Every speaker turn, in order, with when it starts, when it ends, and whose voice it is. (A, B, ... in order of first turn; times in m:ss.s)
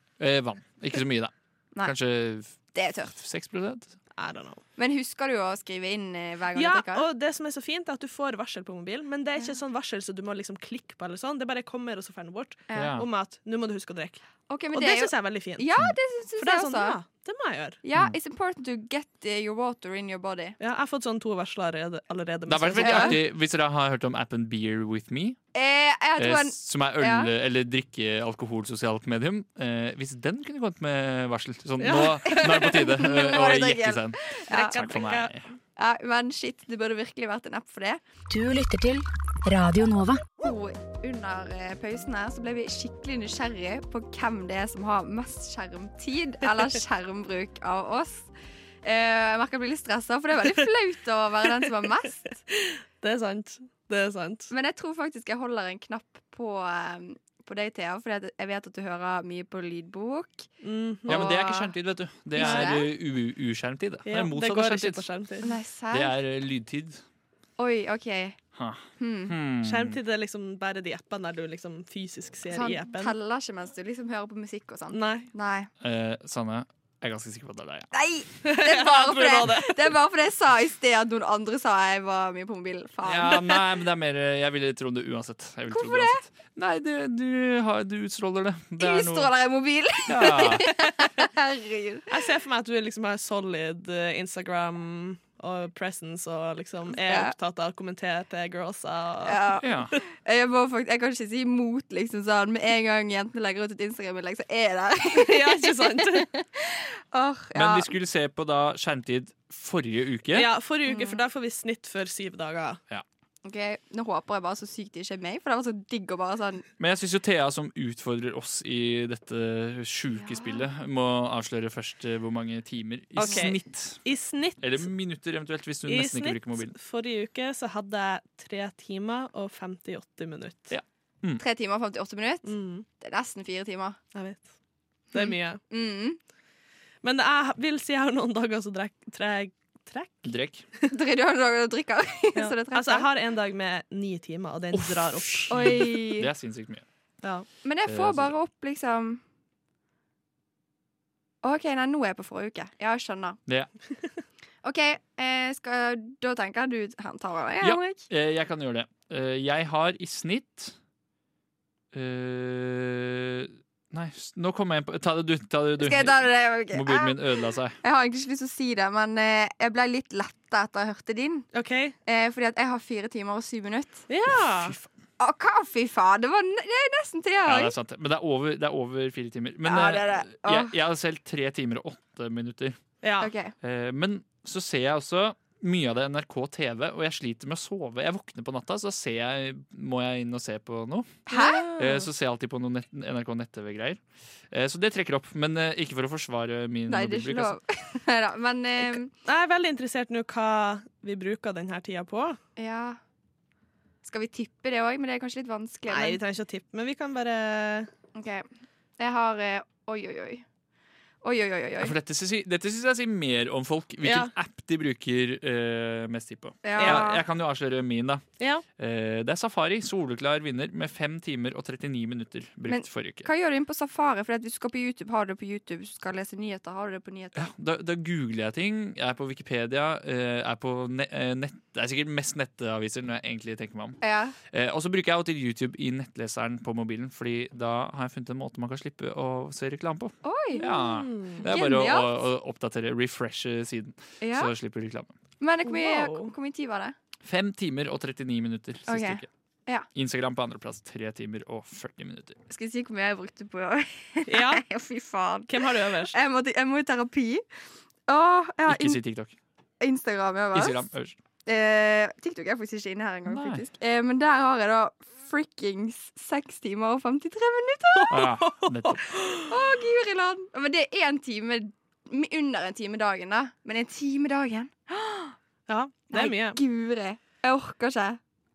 0:00.2-0:02.6 A
0:02.7-0:03.1 B
0:03.1-0:03.9 A
0:04.2-0:04.6 C
0:04.8-0:07.1 B
0:06.5-0:15.6 C
0:12.7-0:13.0 B
0:12.7-0:13.1 A
0:14.5-0:17.0 B
0:16.4-0:17.8 C
0:17.8-0:20.6 B
0:20.6-0:23.2 C
0:22.5-0:25.4 A
0:22.8-0:23.2 B
0:25.5-0:27.3 B
0:26.2-0:35.5 A
0:31.8-0:33.3 C
0:32.3-0:34.8 B
0:34.5-0:35.3 C
0:35.8-0:38.0 B
0:38.3-0:40.2 D
0:40.4-0:48.3 B
0:48.8-0:52.4 B
0:52.5-0:54.5 C
0:54.5-1:00.5 B
1:00.6-1:01.3 C
1:01.1-1:01.7 B
1:01.1-1:05.0 A
1:02.3-1:02.9 B
1:02.4-1:02.8 C
1:04.0-1:05.5 C
1:05.4-1:06.1 B
1:05.9-1:07.0 A
1:07.6-1:08.4 B
1:08.5-1:10.0 A
1:09.0-1:09.4 B
1:09.6-1:13.1 C
1:12.5-1:15.7 B
1:14.9-1:15.3 C
1:15.8-1:17.9 A
1:17.9-1:23.5 B
1:18.4-1:19.8 C
1:23.0-1:29.3 A
1:25.7-1:26.2 B
1:28.8-1:32.1 B
1:30.1-1:30.7 A
1:32.1-1:40.0 C
1:37.0-1:37.3 B
1:39.2-1:47.9 B
1:39.6-1:39.9 A
1:45.1-1:46.3 C
1:47.5-1:50.5 A
1:50.3-1:52.8 C
1:50.8-1:51.2 B
1:53.4-1:56.7 B
1:56.8-2:04.0 A
2:00.1-2:00.6 B
2:03.2-2:04.9 C
2:03.2-2:03.5 B
2:04.6-2:06.7 A
2:05.9-2:10.7 C
2:10.7-2:11.4 A
2:11.4-2:14.0 B
2:12.4-2:12.8 C
2:14.1-2:14.4 C
2:15.1-2:15.6 C
2:15.1-2:16.2 B
2:17.0-2:20.3 C
2:20.2-2:20.6 A
2:20.9-2:23.1 B
2:22.3-2:25.5 C
2:24.7-2:26.8 A
2:25.5-2:26.3 B
2:27.2-2:27.5 C
2:27.6-2:29.2 B
2:27.8-2:28.3 A
2:31.4-2:33.4 B
2:34.6-2:38.0 B
2:37.6-2:40.8 A
2:41.9-2:47.8 A
2:45.8-2:47.2 B
2:47.7-2:51.5 B
2:51.5-2:52.0 C
2:52.0-2:54.0 B
2:54.1-2:54.7 C
2:54.5-2:54.9 A
2:55.2-2:57.7 B
2:57.4-3:02.8 A
2:59.6-3:00.7 B
3:03.0-3:03.3 C
3:03.2-3:03.5 B
3:03.6-3:17.6 A
3:11.3-3:11.7 B
3:11.3-3:12.1 C
3:16.9-3:19.1 B
3:19.2-3:22.4 C
3:22.6-3:23.0 B
3:24.0-3:26.2 B
3:25.9-3:27.9 C
3:28.1-3:28.4 B
3:29.0-3:30.4 B
3:31.2-3:31.9 B
3:31.8-3:38.2 A
3:34.0-3:34.3 C
3:36.6-3:37.2 B
3:36.8-3:37.1 C
3:38.4-3:38.6 C
3:38.8-3:43.3 A
3:42.7-3:47.5 B
3:47.3-3:54.0 A
3:54.0-3:54.4 B
3:54.5-4:05.1 A
4:00.2-4:00.7 B
4:00.6-4:01.5 C
4:01.4-4:02.2 B
4:04.2-4:04.5 B
4:05.4-4:06.9 B
4:05.6-4:06.3 C
4:07.2-4:09.3 A
4:08.9-4:09.9 B
4:09.9-4:12.4 A
4:12.5-4:17.4 B
4:14.3-4:14.6 C
4:15.5-4:16.1 C
4:18.1-4:19.0 B
4:18.6-4:19.4 A
4:19.8-4:20.8 B
4:20.5-4:21.2 A
4:21.4-4:28.1 B
4:23.2-4:23.6 A
4:27.9-4:29.5 C
4:28.1-4:29.0 A
4:29.4-4:35.4 B
4:35.7-4:36.6 C
4:36.1-4:38.2 B